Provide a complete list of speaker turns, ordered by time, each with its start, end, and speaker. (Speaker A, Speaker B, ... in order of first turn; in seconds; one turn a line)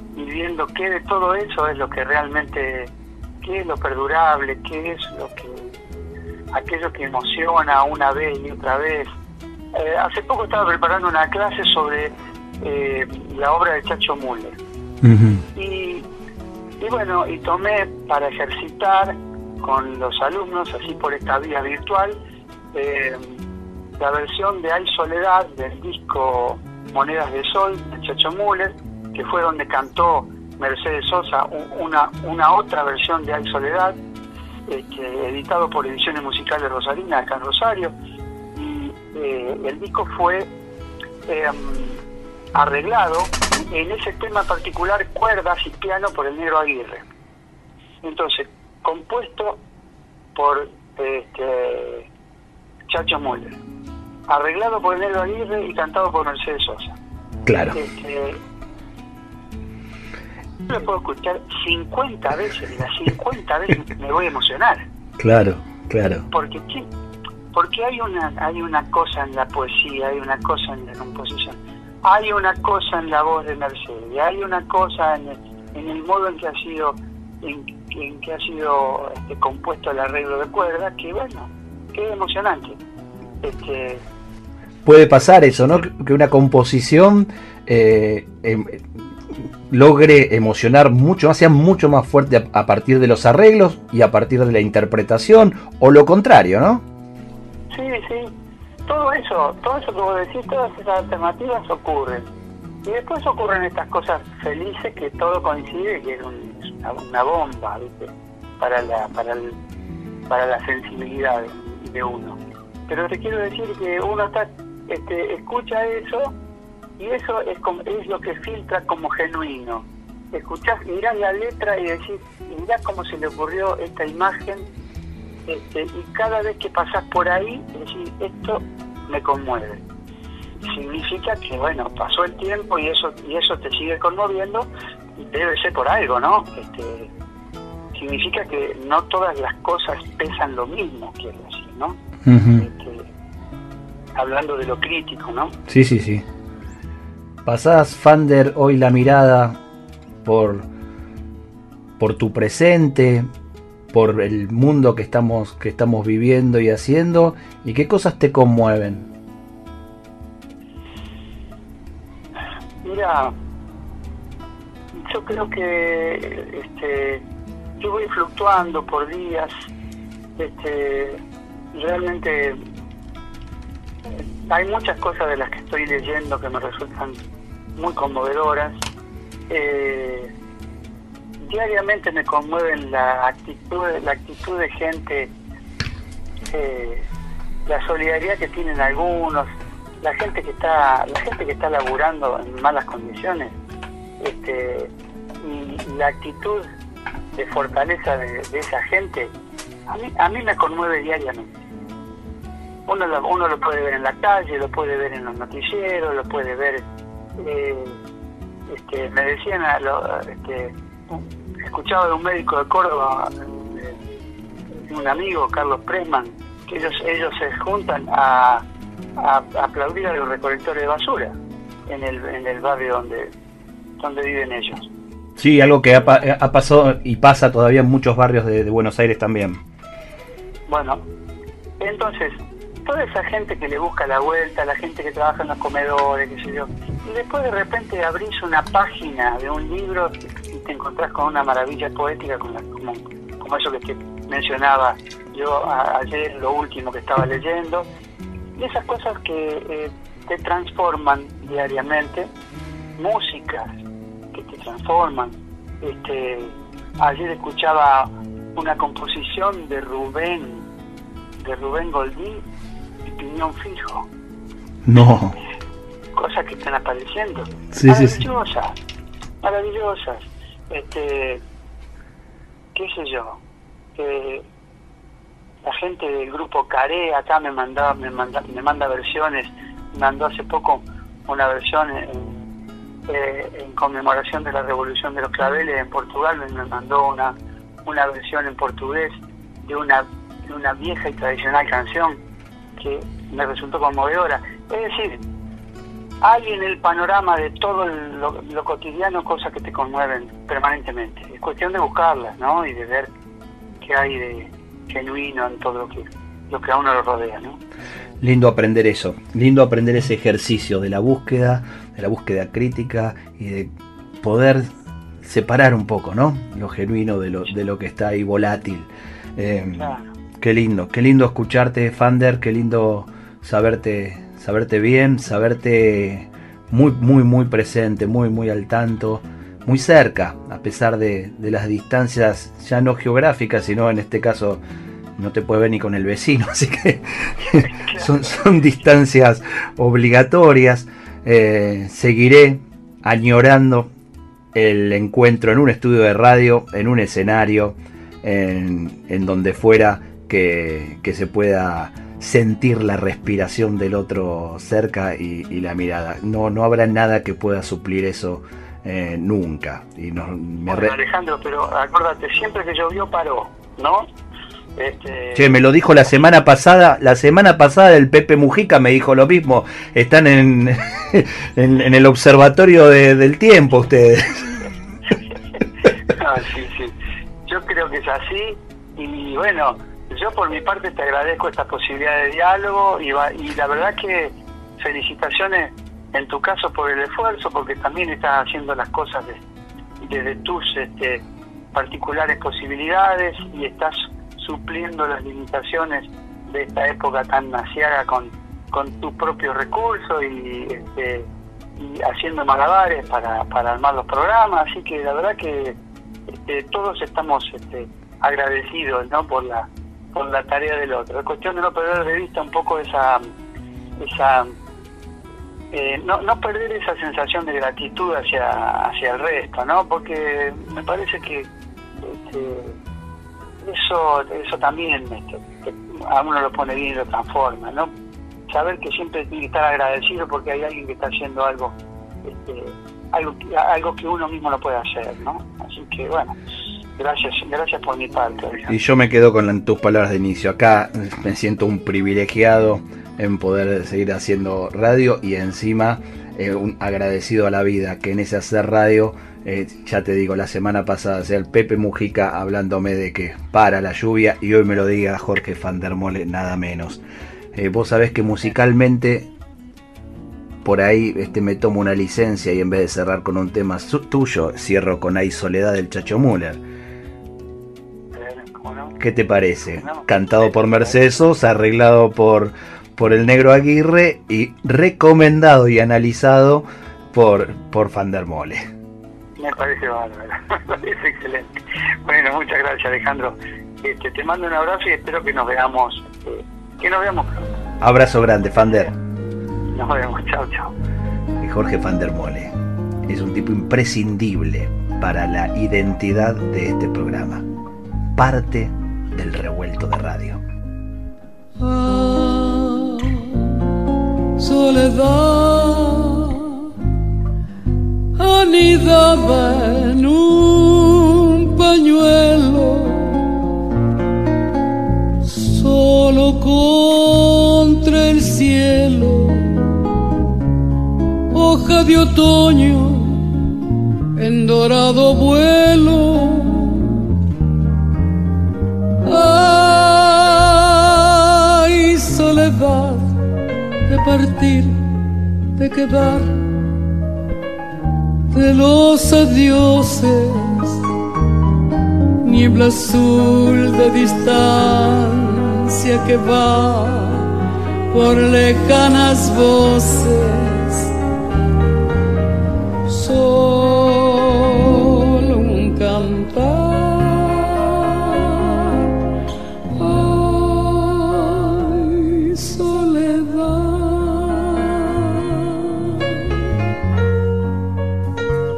Speaker A: 0.1-2.9
Speaker A: 3.4-5.8
Speaker A: 6.5-9.1
Speaker A: 9.7-14.6
Speaker B: 15.0-15.4
Speaker A: 15.6-16.1
Speaker A: 16.8-22.2
Speaker A: 22.7-23.4
Speaker A: 24.0-34.0
Speaker A: 34.7-37.9
Speaker A: 38.5-40.5
Speaker A: 41.3-42.0
Speaker A: 42.5-47.1
Speaker A: 48.0-49.6
Speaker A: 50.4-52.1
Speaker A: 52.9-53.6
Speaker A: 54.3-57.0
Speaker B: 57.5-57.8
Speaker A: 57.7-58.4
Speaker A: 60.7-64.8
Speaker B: 65.2-66.2
Speaker A: 66.3-66.9
Speaker A: 67.5-82.8
Speaker A: 83.4-84.0
Speaker B: 84.8-88.8
Speaker B: 89.7-96.8
Speaker A: 97.7-98.3
Speaker A: 98.9-102.3
Speaker A: 102.8-109.6
Speaker A: 110.3-116.3
Speaker A: 117.0-124.7
Speaker A: 125.5-129.8
Speaker A: 130.7-137.1
Speaker A: 137.9-142.0
Speaker B: 142.2-142.7
Speaker A: 142.6-143.1
Speaker A: 144.2-145.6
Speaker B: 145.7-146.2
Speaker B: 147.4-149.6
Speaker B: 150.2-150.7
Speaker B: 152.0-153.3
Speaker B: 153.9-159.1
Speaker A: 162.8-163.3
Speaker A: 165.0-167.2
Speaker A: 167.8-169.5
Speaker A: 170.4-171.2
Speaker A: 171.7-172.6
Speaker A: 174.5-177.2
Speaker A: 177.8-178.8
Speaker A: 179.5-180.3
Speaker A: 181.4-185.3
Speaker A: 186.5-187.1
Speaker A: 187.7-193.5
Speaker A: 194.2-196.7
Speaker A: 197.3-199.3
Speaker A: 199.9-201.6
Speaker A: 202.9-206.8
Speaker A: 207.4-208.0
Speaker A: 208.7-214.0
Speaker A: 214.9-218.6
Speaker A: 219.2-221.3
Speaker A: 221.9-223.3
Speaker A: 224.0-224.9
Speaker B: 225.4-229.6
Speaker A: 230.7-231.0
Speaker A: 231.8-247.9
Speaker A: 248.6-252.3
Speaker A: 253.0-253.8
Speaker A: 254.3-260.6
Speaker A: 261.4-262.4
Speaker A: 263.1-264.1
Speaker B: 264.9-265.4
Speaker A: 266.1-268.8
Speaker B: 267.7-268.2
Speaker A: 269.4-271.4
Speaker A: 272.8-273.4
Speaker A: 274.0-274.5
Speaker A: 275.6-282.4
Speaker A: 283.1-287.4
Speaker A: 287.9-292.2
Speaker A: 292.8-295.2
Speaker A: 296.2-303.1
Speaker A: 303.8-307.6
Speaker B: 308.2-314.7
Speaker B: 315.2-334.6
Speaker A: 319.8-320.1
Speaker B: 335.2-343.9
Speaker A: 337.5-338.1
Speaker B: 344.5-361.0
Speaker A: 360.7-364.1
Speaker A: 364.8-365.5
Speaker B: 365.4-374.5
Speaker A: 376.1-376.9
Speaker A: 377.5-389.4
Speaker A: 390.0-391.2
Speaker A: 391.7-405.8
Speaker A: 406.4-413.2
Speaker A: 414.0-414.5
Speaker A: 415.7-421.5
Speaker A: 422.0-422.8
Speaker A: 423.6-427.9
Speaker A: 428.5-436.4
Speaker A: 437.0-438.8
Speaker B: 438.7-457.0
Speaker B: 457.6-459.3
Speaker B: 460.6-466.6
Speaker A: 468.1-468.9
Speaker B: 469.0-478.7
Speaker A: 469.8-470.9
Speaker A: 479.4-487.5
Speaker B: 487.8-488.9
Speaker A: 489.7-490.7
Speaker B: 491.4-492.5
Speaker B: 493.1-497.4
Speaker B: 498.2-500.4
Speaker C: 501.6-503.6
Speaker C: 504.4-506.7
Speaker C: 508.2-513.4
Speaker C: 515.2-519.6
Speaker C: 521.3-523.2
Speaker C: 524.1-527.0
Speaker C: 529.0-533.1
Speaker C: 533.9-534.8
Speaker C: 535.6-536.4
Speaker C: 538.3-540.8
Speaker C: 542.2-547.3
Speaker C: 547.9-550.9
Speaker C: 552.9-558.9
Speaker C: 559.8-565.5